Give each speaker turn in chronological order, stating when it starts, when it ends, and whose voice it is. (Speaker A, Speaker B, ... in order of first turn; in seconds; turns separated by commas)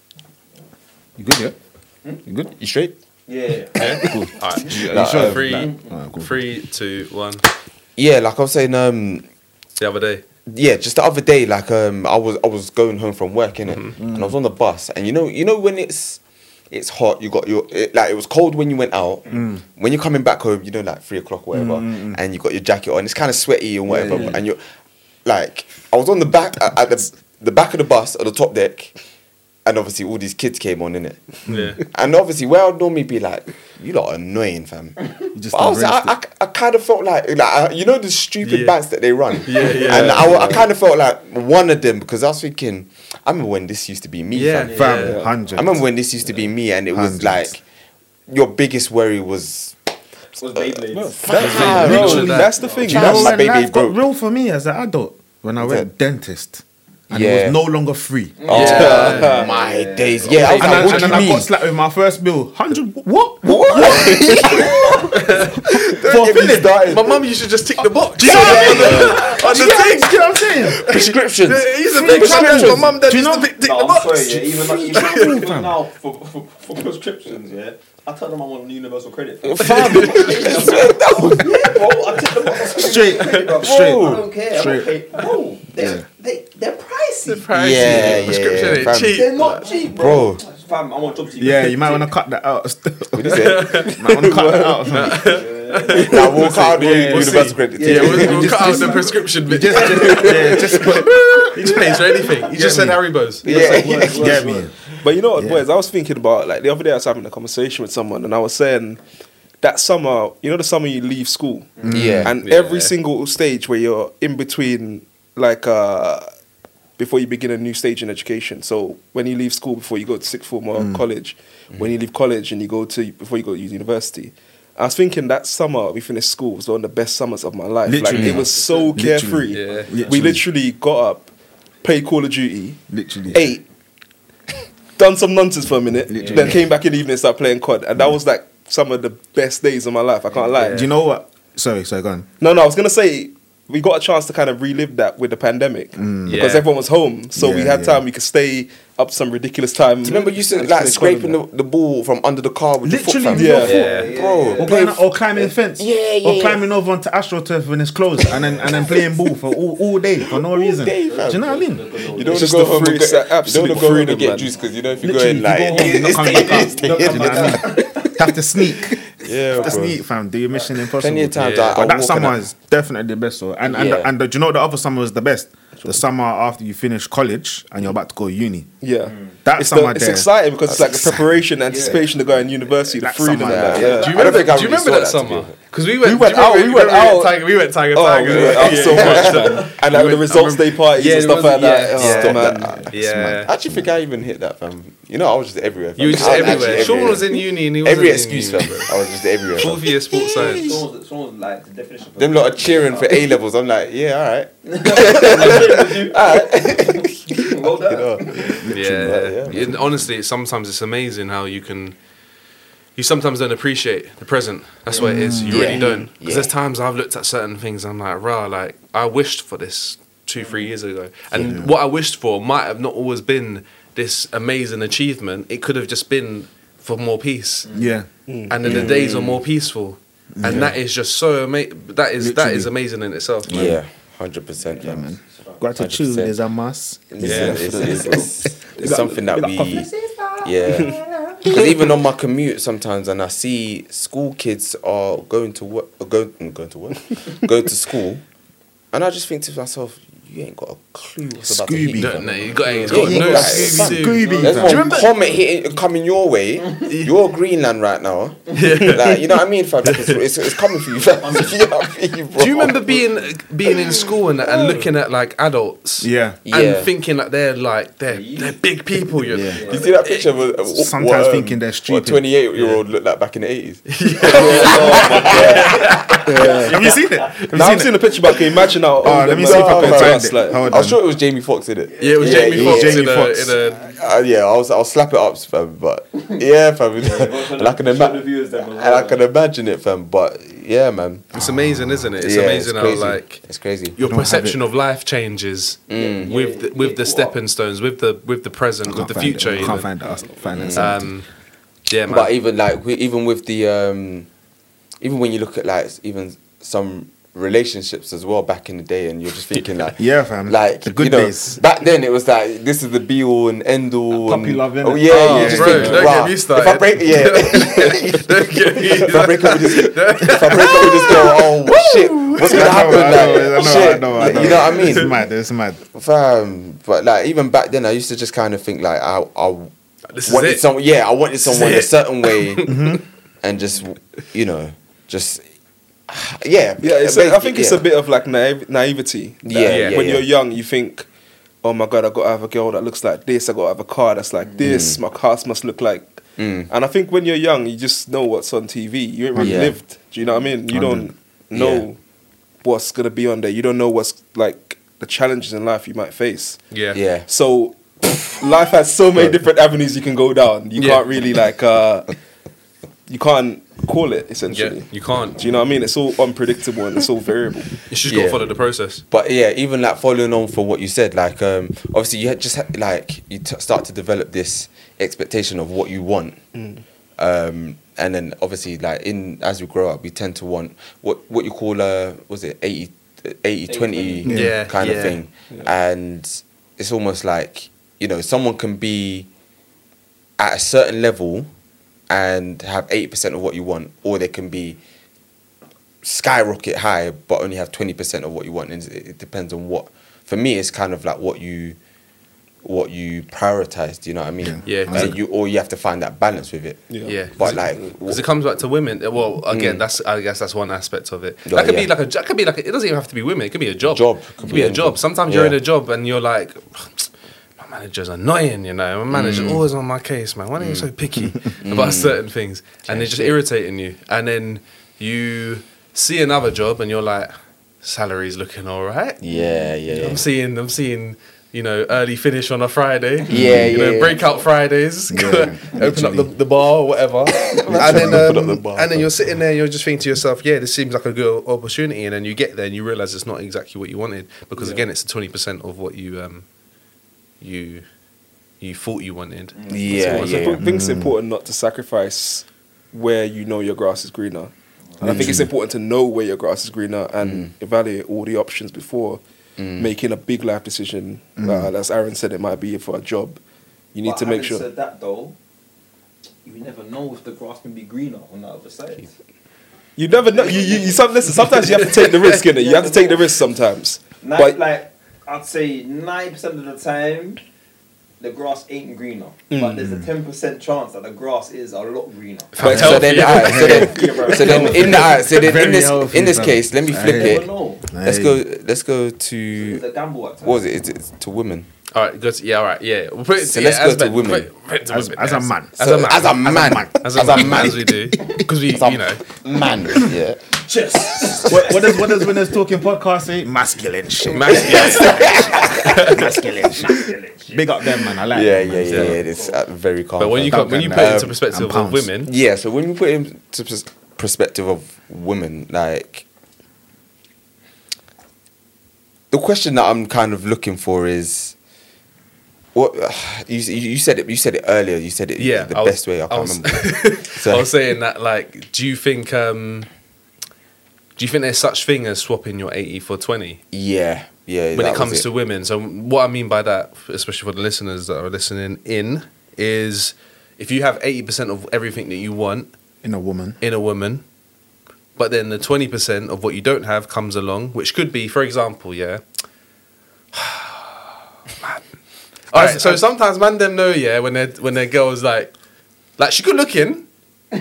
Speaker A: 1.2-1.6, Speaker A: 2.2-2.5, Speaker B: 2.6-2.9, Speaker C: 3.3-4.1, Speaker D: 3.8-7.4, Speaker A: 3.9-6.4, Speaker B: 4.8-5.6, Speaker C: 5.5-5.9, Speaker B: 8.0-9.2, Speaker D: 9.8-10.2, Speaker B: 10.5-16.2, Speaker A: 14.0-14.3, Speaker B: 16.7-24.6, Speaker A: 19.3-19.6, Speaker A: 21.5-22.2, Speaker A: 23.9-24.4, Speaker B: 25.2-28.9, Speaker B: 29.6-44.9, Speaker A: 31.5-31.8, Speaker D: 31.5-31.8, Speaker A: 35.3-36.1, Speaker D: 38.4-38.7, Speaker D: 39.4-40.6, Speaker C: 40.3-40.5, Speaker D: 44.3-45.2, Speaker C: 44.6-45.6, Speaker A: 44.7-45.8, Speaker B: 45.5-47.6, Speaker A: 46.9-47.5, Speaker B: 48.3-49.8, Speaker C: 50.4-53.1, Speaker B: 50.5-54.0, Speaker A: 51.0-58.6, Speaker D: 51.3-52.6, Speaker E: 51.4-53.4, Speaker B: 55.6-55.9, Speaker B: 57.1-57.6, Speaker C: 58.4-60.9, Speaker B: 58.4-61.5, Speaker D: 58.5-59.4, Speaker E: 58.5-59.5, Speaker D: 60.2-61.3, Speaker A: 60.4-64.9, Speaker C: 63.5-65.0, Speaker B: 63.6-64.8, Speaker D: 65.1-65.8, Speaker B: 65.8-67.2, Speaker A: 65.8-66.9, Speaker D: 66.7-75.5, Speaker A: 68.2-70.9, Speaker C: 68.2-69.4, Speaker B: 68.3-69.2, Speaker E: 68.5-69.2, Speaker B: 70.7-73.0, Speaker A: 71.9-73.6, Speaker C: 73.6-88.4, Speaker A: 74.5-75.8, Speaker B: 79.4-81.8, Speaker D: 79.6-80.4, Speaker A: 82.7-85.0, Speaker B: 83.6-84.2, Speaker A: 85.7-86.0, Speaker D: 87.3-89.8, Speaker B: 87.5-89.3, Speaker C: 88.9-92.1, Speaker B: 89.9-90.4, Speaker A: 91.4-95.3, Speaker B: 93.1-94.4, Speaker D: 93.3-94.3, Speaker D: 94.9-103.4, Speaker C: 95.1-99.1, Speaker B: 95.8-98.8, Speaker A: 97.9-101.9, Speaker C: 99.7-100.9, Speaker A: 102.5-103.0, Speaker C: 103.4-104.7, Speaker B: 103.4-104.5, Speaker E: 103.5-104.1, Speaker A: 104.1-104.7, Speaker E: 105.0-109.0, Speaker A: 105.3-105.6, Speaker E: 109.6-116.3, Speaker A: 111.8-112.3, Speaker B: 111.9-112.3, Speaker D: 112.4-112.9, Speaker E: 117.0-131.3, Speaker A: 120.7-121.0, Speaker A: 127.8-130.4, Speaker B: 128.1-128.4, Speaker C: 128.3-128.9, Speaker D: 129.5-129.9, Speaker C: 129.6-130.1, Speaker E: 131.8-133.6, Speaker A: 132.9-133.4, Speaker E: 135.0-140.9, Speaker A: 136.1-136.7, Speaker C: 136.2-136.5, Speaker D: 140.6-140.9, Speaker A: 140.6-142.3, Speaker E: 142.4-151.4, Speaker A: 145.9-146.5, Speaker D: 146.2-146.7, Speaker A: 147.3-148.0, Speaker B: 150.0-156.7, Speaker A: 152.8-161.8, Speaker E: 153.3-153.9, Speaker D: 153.6-154.1, Speaker C: 153.6-154.8, Speaker C: 158.3-159.0, Speaker B: 160.3-167.8, Speaker C: 161.1-162.7, Speaker E: 162.2-164.5, Speaker A: 165.0-178.7, Speaker C: 165.7-168.9, Speaker B: 169.2-170.0, Speaker C: 169.5-169.9, Speaker C: 170.5-170.7, Speaker B: 170.9-172.4, Speaker D: 171.4-171.8, Speaker B: 173.7-174.1, Speaker E: 178.8-184.4, Speaker A: 179.4-181.2, Speaker B: 180.7-180.9, Speaker C: 181.7-182.0, Speaker A: 183.0-184.0, Speaker B: 183.3-185.5, Speaker D: 183.8-193.5, Speaker E: 186.0-187.4, Speaker E: 187.9-192.8, Speaker B: 188.2-190.1, Speaker B: 192.0-200.5, Speaker A: 192.7-193.9, Speaker D: 196.0-198.9, Speaker C: 196.0-197.2, Speaker D: 199.6-200.8, Speaker C: 200.4-203.2, Speaker B: 202.2-209.8, Speaker C: 204.6-208.6, Speaker A: 208.6-209.7, Speaker D: 208.7-211.9, Speaker D: 212.9-227.7, Speaker C: 214.9-215.2, Speaker A: 215.0-215.7, Speaker B: 215.4-216.5, Speaker E: 215.6-216.1, Speaker C: 220.4-220.7, Speaker A: 221.3-221.7, Speaker C: 227.7-227.9, Speaker A: 227.7-228.1, Speaker E: 228.3-228.9, Speaker D: 228.5-233.7, Speaker B: 228.6-229.4, Speaker A: 230.3-230.8, Speaker A: 232.2-232.7, Speaker A: 233.5-233.8, Speaker B: 233.5-235.1, Speaker C: 234.6-235.6, Speaker A: 234.8-238.1, Speaker B: 235.8-236.4, Speaker B: 237.1-239.9, Speaker D: 237.2-237.9, Speaker E: 237.2-239.3, Speaker C: 237.8-238.2, Speaker A: 238.8-239.8, Speaker C: 239.4-241.6, Speaker B: 240.4-248.2, Speaker E: 240.7-240.9, Speaker B: 248.9-263.1, Speaker A: 251.4-255.1, Speaker D: 252.0-255.0, Speaker C: 254.2-255.4, Speaker D: 256.9-257.1, Speaker D: 258.5-259.3, Speaker D: 259.8-260.2, Speaker C: 261.0-261.6, Speaker D: 262.3-270.2, Speaker A: 266.0-266.4, Speaker B: 266.4-266.9, Speaker C: 268.1-268.6, Speaker A: 269.3-269.6, Speaker C: 269.5-270.0, Speaker B: 269.6-275.9, Speaker A: 270.7-272.2, Speaker D: 272.5-272.8, Speaker D: 273.9-276.7, Speaker C: 274.3-277.2, Speaker E: 274.3-275.6, Speaker E: 276.2-276.9, Speaker A: 276.6-278.0, Speaker E: 277.5-280.7, Speaker A: 279.0-281.0, Speaker B: 279.3-283.1, Speaker C: 282.0-282.6, Speaker D: 282.0-283.9, Speaker A: 282.4-283.5, Speaker B: 283.7-291.4, Speaker C: 287.0-289.2, Speaker D: 291.3-293.4, Speaker A: 291.3-292.1, Speaker B: 292.2-294.0, Speaker D: 293.9-299.9, Speaker A: 294.0-294.6, Speaker B: 295.9-296.4, Speaker C: 295.9-297.4, Speaker A: 298.9-301.1, Speaker B: 300.5-301.0, Speaker D: 300.7-301.2, Speaker D: 301.9-302.3, Speaker B: 302.1-304.3, Speaker B: 305.0-325.1, Speaker A: 310.0-311.6, Speaker A: 314.1-316.2, Speaker D: 315.1-323.5, Speaker A: 322.3-325.8, Speaker C: 323.1-324.6, Speaker D: 324.6-325.1, Speaker B: 325.9-329.7, Speaker D: 330.1-330.6, Speaker B: 330.2-332.8, Speaker D: 331.4-333.0, Speaker A: 332.6-333.0, Speaker B: 333.4-335.4, Speaker B: 336.1-337.9, Speaker E: 336.8-341.1, Speaker B: 339.4-340.3, Speaker D: 339.6-340.0, Speaker E: 341.6-352.0, Speaker B: 344.6-345.0, Speaker B: 346.4-346.7, Speaker A: 349.3-349.7, Speaker B: 349.4-349.8, Speaker A: 350.7-351.1, Speaker B: 351.5-351.9, Speaker E: 352.6-356.6, Speaker D: 356.7-357.0, Speaker B: 356.9-357.3, Speaker E: 357.3-362.1, Speaker D: 360.8-361.0, Speaker E: 363.1-367.8, Speaker D: 364.5-365.4, Speaker D: 367.9-369.0, Speaker B: 368.1-368.5, Speaker B: 369.1-376.4, Speaker E: 376.5-376.8, Speaker B: 377.2-389.3, Speaker C: 383.7-384.4, Speaker A: 384.2-384.6, Speaker D: 384.3-385.2, Speaker B: 390.4-391.5, Speaker B: 392.1-394.8, Speaker B: 396.0-401.8, Speaker B: 402.6-408.2, Speaker A: 404.4-405.1, Speaker D: 404.6-405.1, Speaker E: 406.9-407.8, Speaker D: 407.0-427.3, Speaker B: 409.5-409.8, Speaker B: 411.4-411.9, Speaker B: 413.8-415.6, Speaker B: 419.1-419.6, Speaker B: 420.6-420.9, Speaker B: 421.6-422.2, Speaker B: 422.9-423.4, Speaker D: 427.8-429.2, Speaker B: 429.2-430.2, Speaker D: 429.9-446.4, Speaker A: 433.3-433.8, Speaker B: 433.3-434.2, Speaker A: 435.1-436.3, Speaker B: 437.7-439.0, Speaker A: 437.7-438.5, Speaker D: 447.4-447.8, Speaker D: 448.6-450.5, Speaker C: 449.5-450.1, Speaker B: 449.7-450.6, Speaker E: 450.0-459.2, Speaker A: 450.6-451.1, Speaker A: 455.0-455.5, Speaker B: 457.2-457.5, Speaker B: 459.6-459.9, Speaker E: 459.8-463.4, Speaker A: 461.4-461.7, Speaker E: 463.9-464.6, Speaker C: 464.0-465.4, Speaker C: 466.4-469.1, Speaker E: 470.0-474.6, Speaker C: 470.3-473.3, Speaker D: 471.8-472.3, Speaker C: 474.2-477.4, Speaker C: 478.2-485.2, Speaker E: 479.5-479.9, Speaker D: 482.5-483.8, Speaker B: 482.6-487.5, Speaker E: 482.6-485.2, Speaker A: 482.8-483.8, Speaker A: 485.2-488.4, Speaker C: 487.0-487.8, Speaker B: 488.0-489.8, Speaker C: 489.5-490.6, Speaker B: 490.4-491.7, Speaker D: 491.9-499.2, Speaker B: 493.4-494.5, Speaker A: 494.9-498.5, Speaker B: 495.8-497.9, Speaker B: 498.7-500.4, Speaker C: 500.7-502.2, Speaker A: 501.0-509.2, Speaker D: 504.3-506.4, Speaker B: 504.4-506.1, Speaker C: 504.5-507.6, Speaker B: 508.3-511.4, Speaker D: 508.9-509.1, Speaker C: 508.9-509.6, Speaker D: 510.2-512.3, Speaker A: 510.5-512.1, Speaker B: 512.2-516.2, Speaker B: 519.3-521.5, Speaker B: 522.7-527.7, Speaker D: 525.4-529.9, Speaker D: 531.2-533.6, Speaker B: 533.7-535.3, Speaker D: 534.7-542.7, Speaker A: 543.0-543.6, Speaker D: 543.6-544.2, Speaker D: 545.2-549.2, Speaker D: 550.3-551.1, Speaker D: 552.5-555.5, Speaker A: 552.5-553.0, Speaker D: 556.2-557.0